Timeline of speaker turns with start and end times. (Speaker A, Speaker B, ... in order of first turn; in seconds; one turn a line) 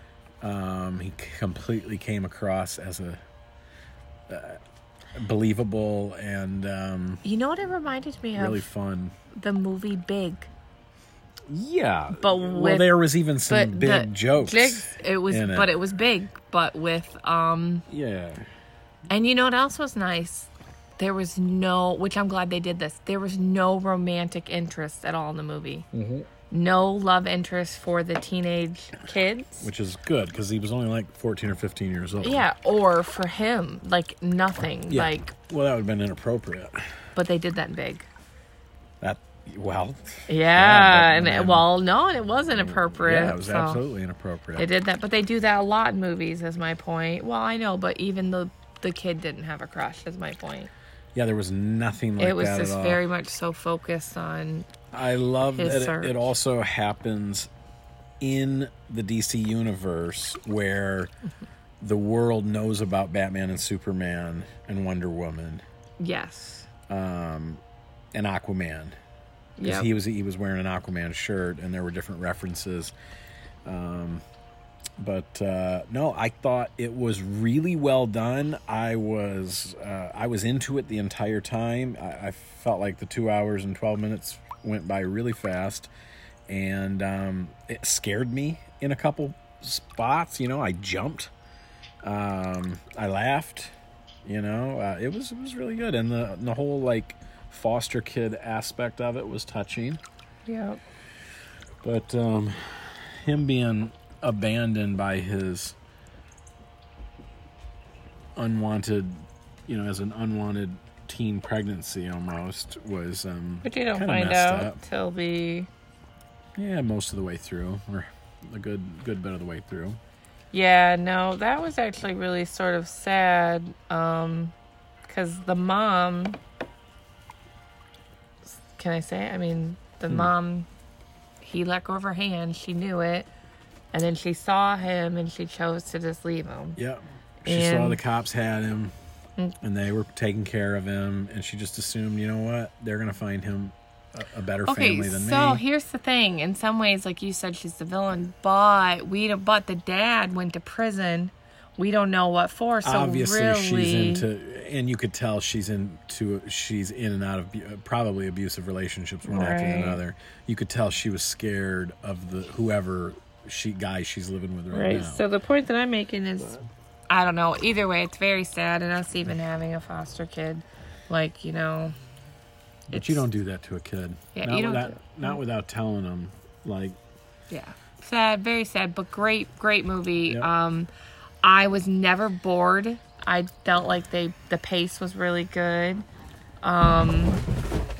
Speaker A: 0.4-3.2
Speaker A: 4.3-4.6
Speaker A: 5.1-7.2
Speaker B: 7.2-8.7
Speaker A: 8.3-9.1
Speaker B: 9.3-10.5
Speaker A: 11.5-15.7
Speaker B: 12.1-12.9
Speaker B: 13.4-17.9
Speaker A: 17.9-18.4
Speaker B: 19.1-25.9
Speaker A: 25.9-26.3
Speaker B: 26.5-29.7
Speaker A: 29.6-32.5
Speaker B: 32.2-35.3
Speaker A: 34.9-37.0
Speaker B: 37.1-38.1
Speaker A: 39.0-41.7
Speaker B: 40.3-43.8
Speaker A: 42.9-44.7
Speaker B: 44.6-50.7
Speaker A: 51.1-53.0
Speaker B: 52.2-54.7
Speaker A: 54.9-57.5
Speaker B: 55.5-56.2
Speaker A: 58.2-61.1
Speaker A: 61.8-65.6
Speaker B: 66.0-66.7
Speaker A: 66.9-67.6
Speaker A: 68.1-69.0
Speaker B: 69.6-69.9
Speaker A: 69.6-72.9
Speaker A: 73.6-74.2
Speaker A: 75.0-85.9
Speaker A: 86.5-91.3
Speaker A: 92.0-93.7
Speaker A: 94.2-100.0
Speaker B: 100.5-100.8
Speaker A: 101.8-105.7
Speaker A: 108.3-114.8
Speaker B: 113.6-115.7
Speaker A: 116.5-120.0
Speaker B: 120.5-124.5
Speaker B: 125.0-126.4
Speaker B: 128.5-130.7
Speaker B: 131.4-133.3
Speaker B: 133.9-136.8
Speaker A: 136.8-138.9
Speaker B: 137.4-138.0
Speaker A: 139.6-145.6
Speaker B: 144.7-154.3
Speaker A: 152.8-165.3
Speaker B: 159.2-160.0
Speaker B: 164.7-171.9
Speaker A: 172.9-177.0
Speaker B: 172.9-173.3
Speaker B: 174.3-175.4
Speaker B: 177.5-180.9
Speaker B: 181.4-186.0
Speaker B: 186.6-187.4